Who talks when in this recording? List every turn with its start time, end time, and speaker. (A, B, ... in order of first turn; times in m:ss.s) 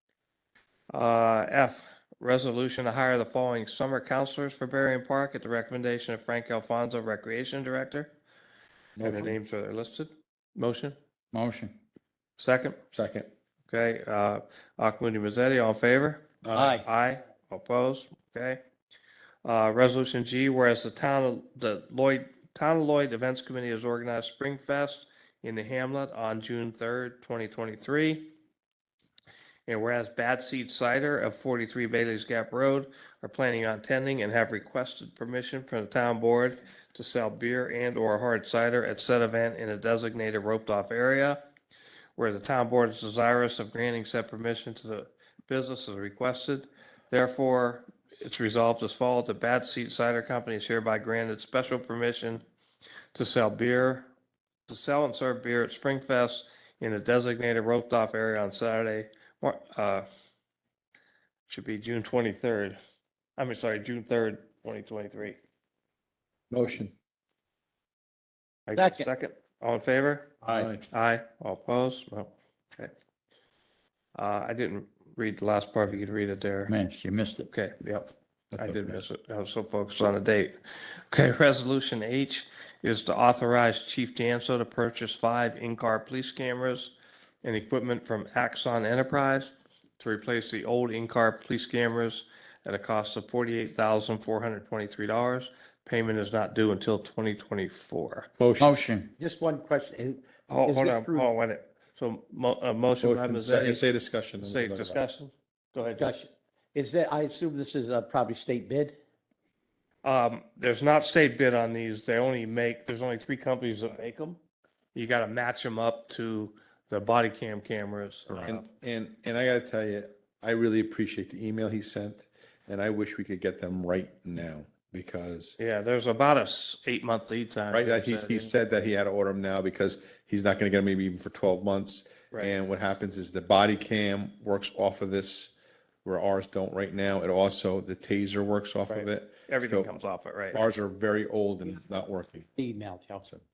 0:00.9-0:08.1 A
0:09.0-0:09.4 B
0:09.0-0:11.0 A
0:11.3-0:11.8 C
0:12.4-0:12.8 A
0:12.9-0:13.3 B
0:13.7-0:18.6 A
0:16.4-0:16.8 B
0:16.5-0:16.8 C
0:19.4-0:28.3 A
0:29.7-0:41.4 A
0:42.2-0:52.4 A
0:53.1-0:54.1 A
0:54.7-1:00.1 A
1:01.5-1:02.8 A
1:03.4-1:05.4 A
1:06.5-1:06.9 B
1:08.7-1:12.9 A
1:08.8-1:09.1 D
1:10.5-1:10.8 B
1:14.1-1:16.7 A
1:16.7-1:17.5 C
1:17.5-1:20.6 A
1:18.5-1:19.0 B
1:21.1-1:26.9 A
1:27.4-1:38.3 A
1:38.4-1:38.7 B
1:38.6-1:39.1 C
1:39.2-1:41.3 D
1:40.5-1:43.8 A
1:43.0-1:45.0 B
1:44.4-1:46.1 A
1:46.0-1:49.0 D
1:50.0-1:54.4 A
1:54.9-1:58.7 A
1:58.3-2:05.6 B
2:05.6-2:08.5 A
2:07.7-2:19.9 B
2:18.9-2:20.6 A
2:20.5-2:22.5 B
2:22.6-2:23.4 D